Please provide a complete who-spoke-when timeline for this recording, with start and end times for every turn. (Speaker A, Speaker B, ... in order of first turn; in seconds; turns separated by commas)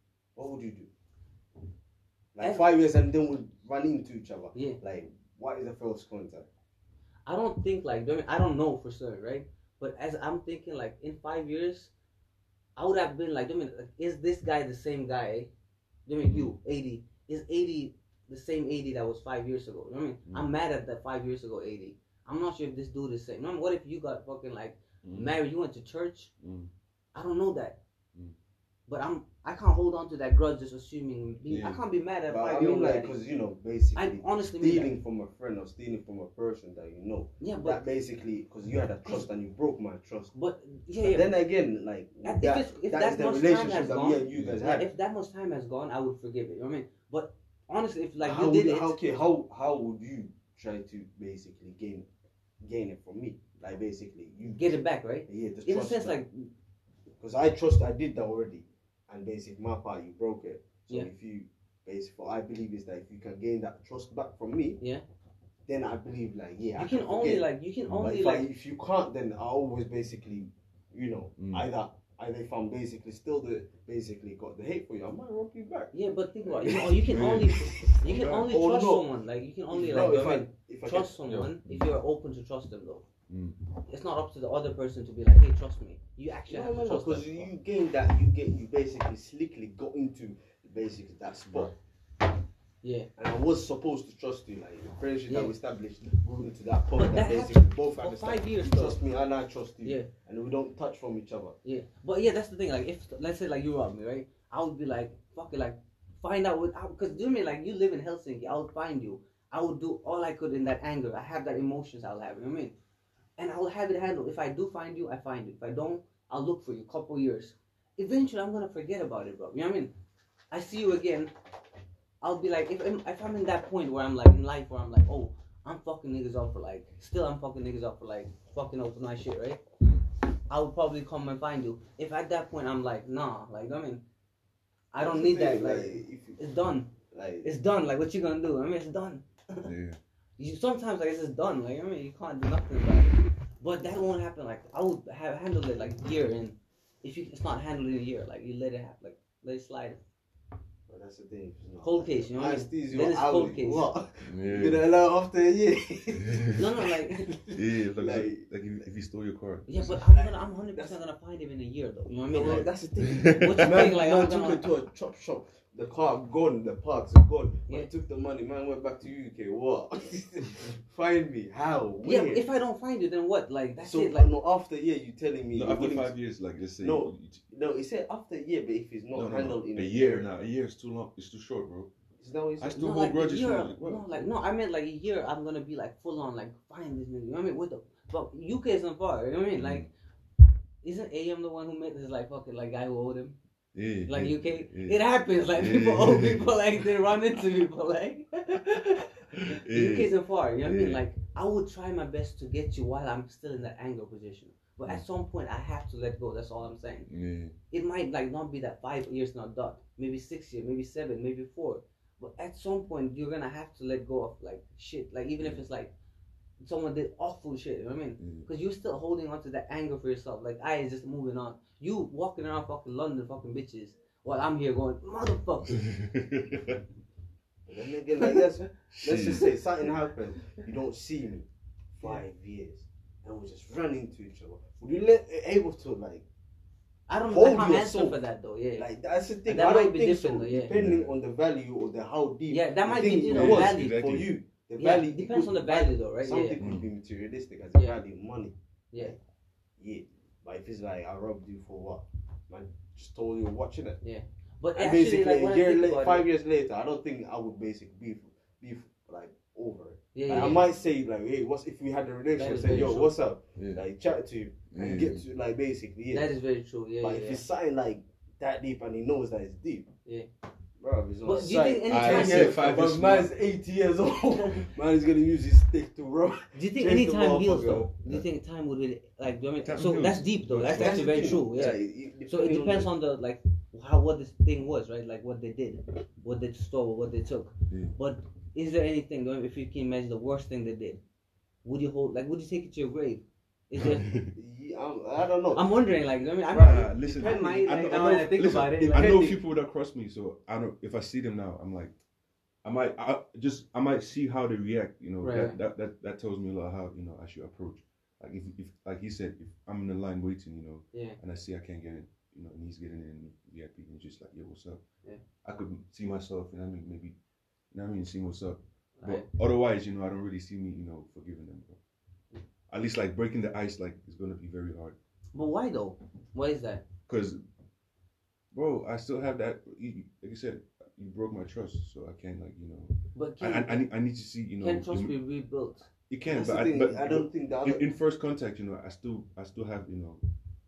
Speaker A: 0.3-0.9, Speaker A: 2.3-6.5, Speaker B: 2.4-2.6, Speaker B: 7.3-11.9, Speaker B: 12.8-15.5, Speaker B: 16.1-26.3, Speaker C: 16.2-16.6, Speaker C: 25.0-25.4, Speaker C: 26.4-26.7, Speaker B: 27.1-27.8, Speaker B: 28.9-33.2, Speaker C: 31.5-31.8, Speaker A: 32.3-40.3, Speaker B: 34.0-34.9, Speaker B: 37.4-37.8, Speaker B: 40.3-41.3, Speaker A: 41.0-44.9, Speaker B: 42.2-49.0, Speaker C: 44.3-44.6, Speaker A: 48.2-52.1, Speaker A: 52.6-56.2, Speaker B: 54.5-56.5, Speaker A: 57.2-64.8, Speaker A: 65.7-67.5, Speaker B: 66.8-68.5, Speaker C: 67.9-68.1, Speaker A: 68.0-79.1, Speaker C: 71.4-71.7, Speaker B: 75.9-83.1, Speaker C: 76.8-78.5, Speaker A: 79.7-81.2, Speaker C: 81.3-81.9, Speaker C: 83.3-83.6, Speaker B: 83.8-87.5, Speaker A: 86.5-91.7, Speaker C: 91.5-91.7, Speaker B: 92.8-93.1, Speaker A: 93.2-101.6, Speaker B: 95.3-95.5, Speaker B: 97.0-99.0, Speaker B: 99.8-100.1, Speaker B: 101.6-112.7, Speaker B: 113.4-119.9, Speaker B: 120.5-121.3, Speaker B: 122.2-129.6, Speaker B: 130.5-134.0, Speaker B: 134.9-136.9, Speaker A: 134.9-136.4, Speaker A: 137.1-137.5, Speaker B: 137.4-139.7, Speaker C: 139.6-140.0, Speaker B: 140.4-150.0, Speaker A: 150.9-158.9, Speaker B: 151.8-153.9, Speaker C: 154.2-154.8, Speaker C: 156.2-156.5, Speaker B: 156.5-157.3, Speaker C: 157.5-159.9, Speaker B: 159.7-162.7, Speaker A: 160.1-161.0, Speaker A: 162.3-172.5, Speaker C: 162.4-163.9, Speaker B: 163.3-164.6, Speaker B: 172.0-174.3, Speaker A: 173.8-176.1, Speaker C: 175.5-177.4, Speaker A: 176.8-180.3, Speaker C: 179.1-181.9, Speaker A: 182.2-182.8, Speaker C: 182.6-184.2, Speaker B: 182.7-189.9, Speaker C: 189.6-189.9, Speaker B: 190.8-193.4, Speaker C: 193.7-195.0, Speaker B: 194.1-207.1, Speaker C: 195.5-196.6, Speaker C: 199.4-201.0, Speaker C: 207.1-207.6, Speaker B: 207.7-215.9, Speaker B: 216.6-225.9, Speaker C: 218.2-218.5, Speaker C: 225.7-226.8, Speaker A: 227.7-236.2, Speaker C: 228.9-229.5, Speaker B: 237.1-238.9, Speaker A: 237.3-238.2, Speaker A: 238.8-249.2, Speaker B: 239.5-240.8, Speaker C: 240.7-241.1, Speaker B: 242.5-244.1, Speaker C: 243.3-244.3, Speaker B: 244.8-246.6, Speaker C: 246.6-246.9, Speaker A: 249.8-254.0, Speaker B: 254.0-256.3, Speaker A: 254.8-266.3, Speaker B: 260.1-260.6, Speaker B: 262.4-263.1, Speaker C: 262.6-263.0, Speaker C: 263.6-263.8, Speaker C: 264.7-265.2, Speaker B: 266.1-267.4, Speaker A: 267.0-269.9, Speaker A: 270.8-277.9, Speaker B: 271.2-272.6, Speaker C: 271.9-273.3, Speaker B: 276.6-291.0, Speaker C: 279.6-281.5, Speaker A: 280.7-282.9, Speaker C: 287.7-288.0, Speaker B: 291.6-294.1, Speaker C: 293.8-294.3, Speaker A: 294.2-295.7, Speaker B: 295.5-299.2, Speaker A: 296.5-299.4, Speaker C: 296.5-301.9, Speaker C: 302.6-314.8, Speaker B: 305.2-305.6, Speaker B: 310.9-311.2, Speaker C: 315.4-317.1, Speaker C: 317.7-321.8, Speaker B: 319.0-319.3, Speaker C: 322.7-325.0, Speaker B: 325.3-326.9, Speaker C: 327.1-327.4, Speaker C: 328.5-335.2, Speaker B: 333.1-333.9, Speaker B: 334.6-335.9, Speaker C: 336.1-340.2, Speaker A: 336.2-337.8